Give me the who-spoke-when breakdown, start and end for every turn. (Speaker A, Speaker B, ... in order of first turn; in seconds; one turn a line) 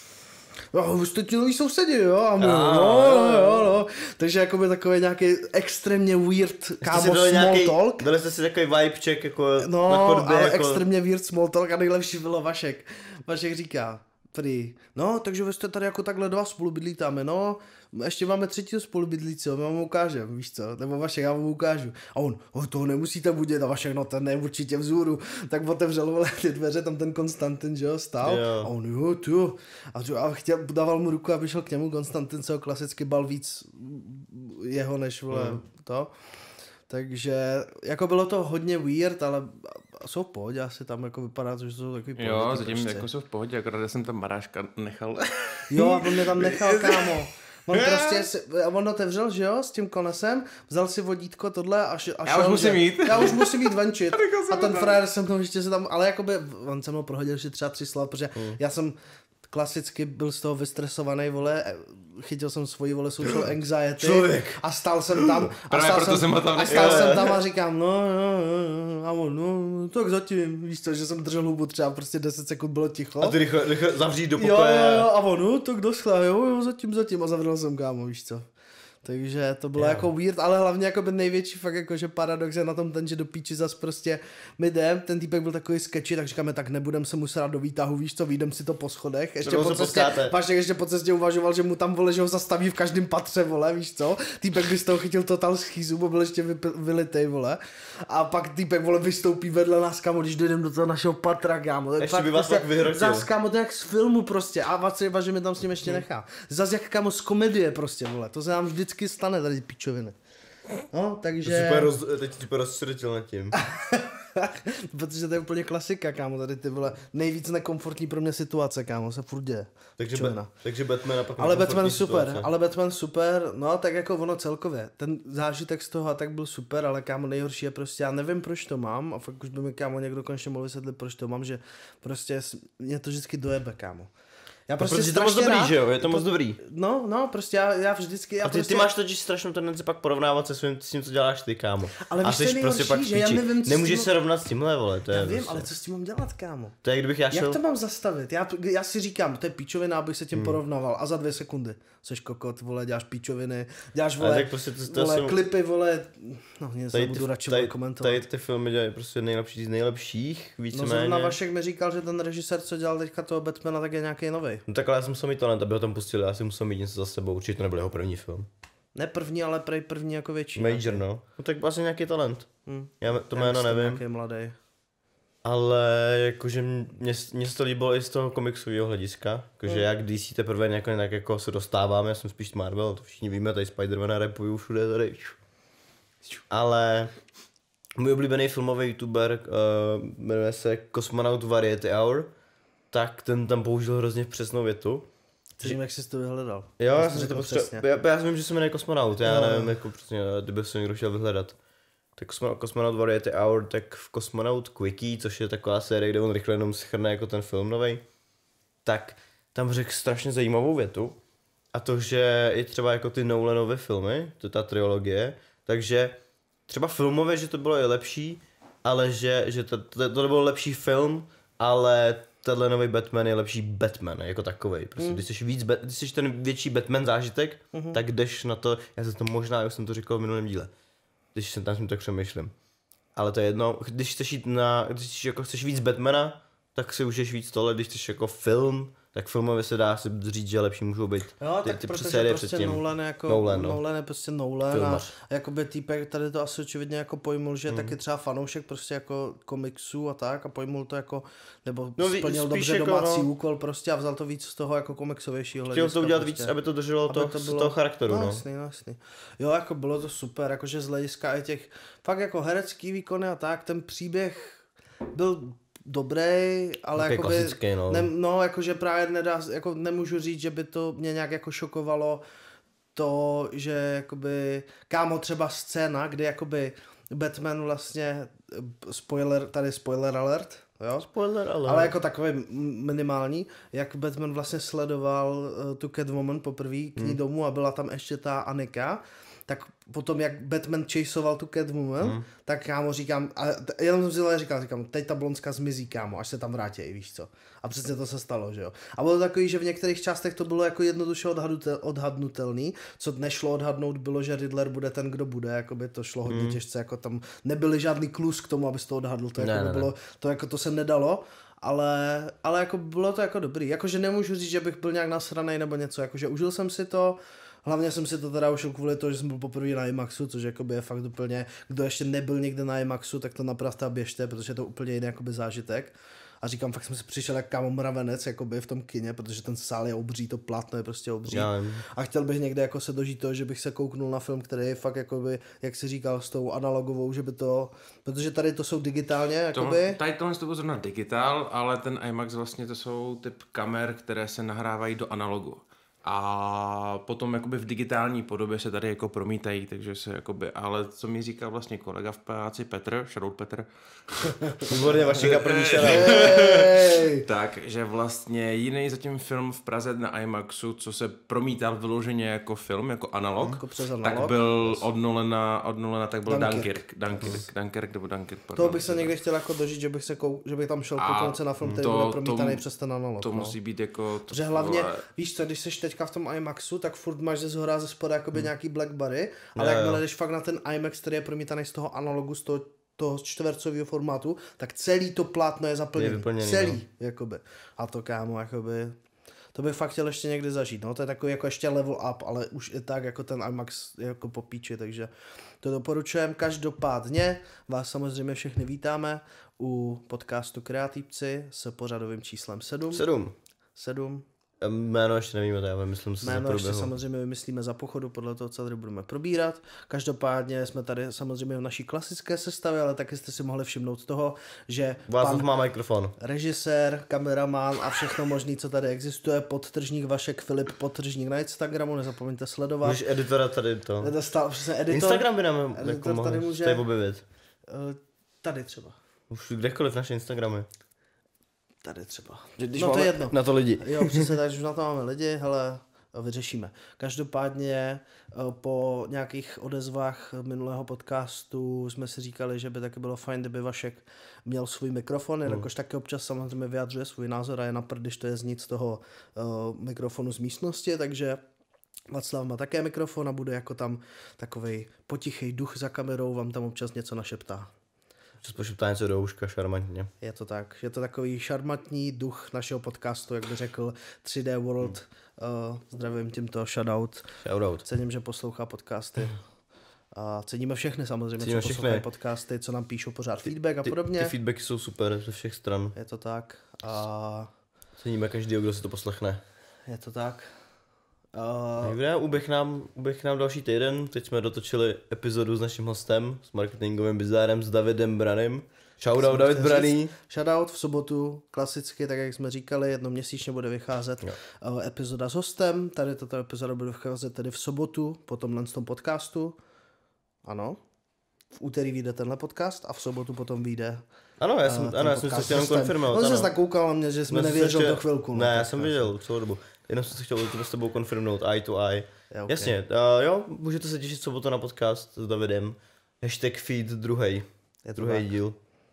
Speaker A: 0.7-8.1
Speaker B: 2.4-3.8
Speaker B: 6.8-10.8
Speaker A: 9.6-36.1
Speaker B: 28.2-28.7
Speaker B: 35.3-35.6
Speaker A: 36.9-43.1
Speaker C: 42.2-47.2
Speaker A: 45.7-59.0
Speaker C: 47.7-48.2
Speaker C: 52.2-55.0
Speaker A: 59.5-73.4
Speaker B: 64.0-64.6
Speaker B: 65.2-65.4
Speaker C: 65.7-67.3
Speaker B: 66.7-67.3
Speaker B: 73.2-75.1
Speaker A: 74.4-78.4
Speaker A: 79.0-110.2
Speaker B: 79.8-80.0
Speaker B: 89.4-90.3
Speaker B: 102.0-103.3
Speaker A: 110.9-111.9
Speaker B: 111.4-113.5
Speaker A: 113.6-120.5
Speaker B: 120.0-122.5
Speaker A: 121.4-134.1
Speaker A: 134.7-138.9
Speaker B: 134.8-136.6
Speaker B: 138.4-145.7
Speaker A: 142.0-144.1
Speaker A: 145.1-146.8
Speaker B: 146.8-147.6
Speaker A: 147.3-158.2
Speaker B: 154.2-155.4
Speaker B: 156.9-161.4
Speaker A: 160.7-164.6
Speaker B: 164.7-168.5
Speaker A: 168.9-171.0
Speaker B: 170.6-172.5
Speaker A: 172.7-174.6
Speaker B: 173.0-174.0
Speaker B: 175.4-185.4
Speaker B: 186.5-187.1
Speaker B: 188.0-192.3
Speaker B: 192.9-195.1
Speaker A: 195.6-197.8
Speaker B: 196.8-201.6
Speaker A: 199.2-199.8
Speaker B: 202.2-208.0
Speaker B: 208.8-211.2
Speaker B: 211.7-230.7
Speaker A: 227.7-228.0
Speaker B: 231.3-232.5
Speaker B: 233.2-243.8
Speaker A: 241.4-256.5
Speaker B: 244.7-245.1
Speaker B: 247.7-247.9
Speaker B: 252.0-253.3
Speaker B: 255.7-258.4
Speaker A: 257.1-272.2
Speaker B: 267.0-268.1
Speaker A: 272.9-281.1
Speaker B: 281.0-281.9
Speaker A: 281.6-340.0
Speaker B: 292.0-292.2
Speaker B: 306.3-306.6
Speaker B: 309.4-309.9
Speaker B: 331.3-331.8
Speaker C: 339.5-369.1
Speaker B: 354.7-356.3
Speaker A: 355.8-357.2
Speaker A: 363.4-364.8
Speaker A: 366.3-367.3
Speaker A: 368.6-373.5
Speaker C: 371.0-372.6
Speaker C: 373.2-375.0
Speaker A: 374.3-388.9
Speaker B: 379.5-380.0
Speaker B: 385.9-386.8
Speaker A: 389.5-395.1
Speaker A: 395.6-403.0
Speaker B: 402.9-403.3
Speaker A: 403.8-404.2
Speaker B: 404.6-406.9
Speaker A: 406.2-415.5
Speaker B: 415.1-416.1
Speaker A: 416.2-423.0
Speaker B: 422.8-424.1
Speaker A: 424.0-426.8
Speaker B: 424.9-427.2
Speaker A: 427.7-428.9
Speaker B: 429.3-430.7
Speaker A: 431.8-451.4
Speaker B: 432.6-434.3
Speaker A: 452.1-457.7
Speaker B: 458.4-460.1
Speaker A: 460.2-467.3
Speaker B: 467.4-467.8
Speaker A: 467.8-469.4
Speaker A: 470.1-474.3
Speaker B: 471.4-472.1
Speaker B: 473.8-475.9
Speaker A: 475.9-477.5
Speaker B: 478.0-479.4
Speaker A: 479.9-480.5
Speaker A: 481.3-482.0
Speaker B: 481.8-490.1
Speaker A: 489.2-499.6
Speaker A: 500.4-500.8
Speaker A: 501.5-504.0
Speaker B: 504.4-506.5
Speaker A: 504.6-509.1
Speaker B: 507.3-518.6
Speaker A: 512.3-512.8
Speaker A: 517.8-518.3